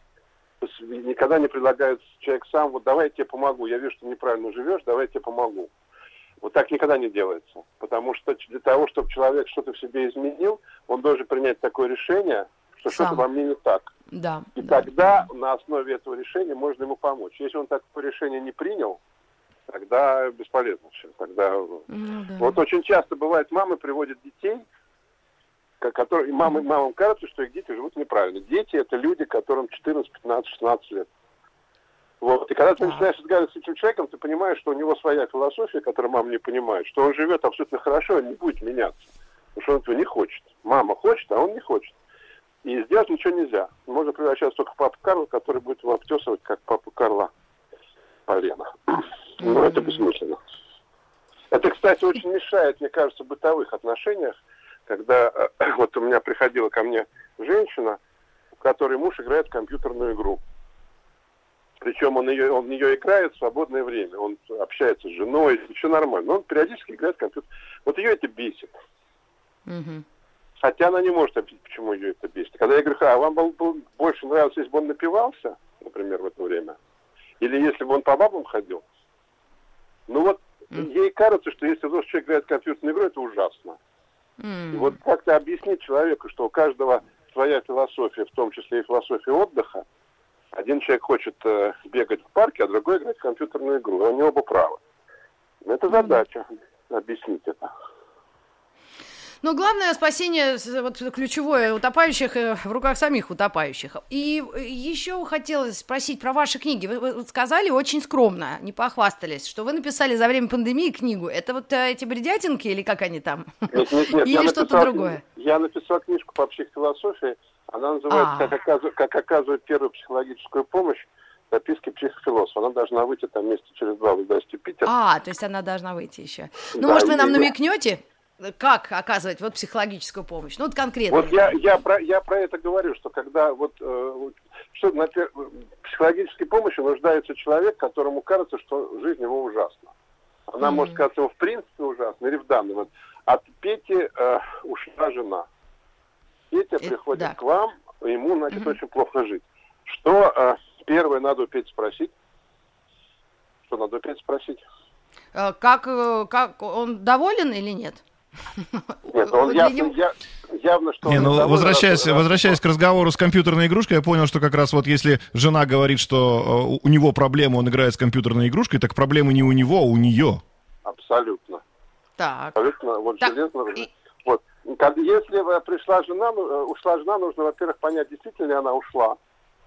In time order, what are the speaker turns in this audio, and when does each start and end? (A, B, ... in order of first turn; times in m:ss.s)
0:00.6-0:05.7 A
0:06.4-0:13.9 A
0:12.9-0:13.2 B
0:14.1-0:15.2 B
0:14.6-0:19.0 A
0:19.7-0:21.8 A
0:21.9-0:22.6 B
0:22.4-0:24.6 A
0:25.8-0:31.1 A
0:32.2-0:42.0 A
0:42.6-0:47.3 A
0:48.3-0:50.4 A
0:49.4-0:50.0 B
0:51.5-0:54.4 A
0:54.9-0:58.0 A
0:58.6-1:00.4 A
1:01.8-1:08.7 A
1:09.7-1:10.0 B
1:10.6-1:16.8 A
1:17.4-1:18.8 A
1:20.1-1:23.8 A
1:24.4-1:25.0 B
1:24.7-1:29.8 A
1:30.5-1:34.8 A
1:35.6-1:37.7 A
1:35.9-1:36.2 B
1:39.4-1:55.2 B
1:53.7-2:04.9 A
1:58.1-1:58.6 B
2:04.8-2:11.5 B
2:06.8-2:07.5 A
2:11.1-2:19.9 A
2:20.5-2:25.4 A
2:20.6-2:21.0 B
2:26.5-2:32.1 A
2:26.8-2:27.3 B
2:28.5-2:28.8 B
2:33.7-2:34.6 A
2:35.3-2:38.0 B
2:38.6-2:40.0 B
2:39.1-2:42.6 A
2:41.1-2:50.4 C
2:50.8-2:51.6 A
2:52.2-2:52.6 B
2:52.6-2:59.2 A
2:53.2-2:53.9 B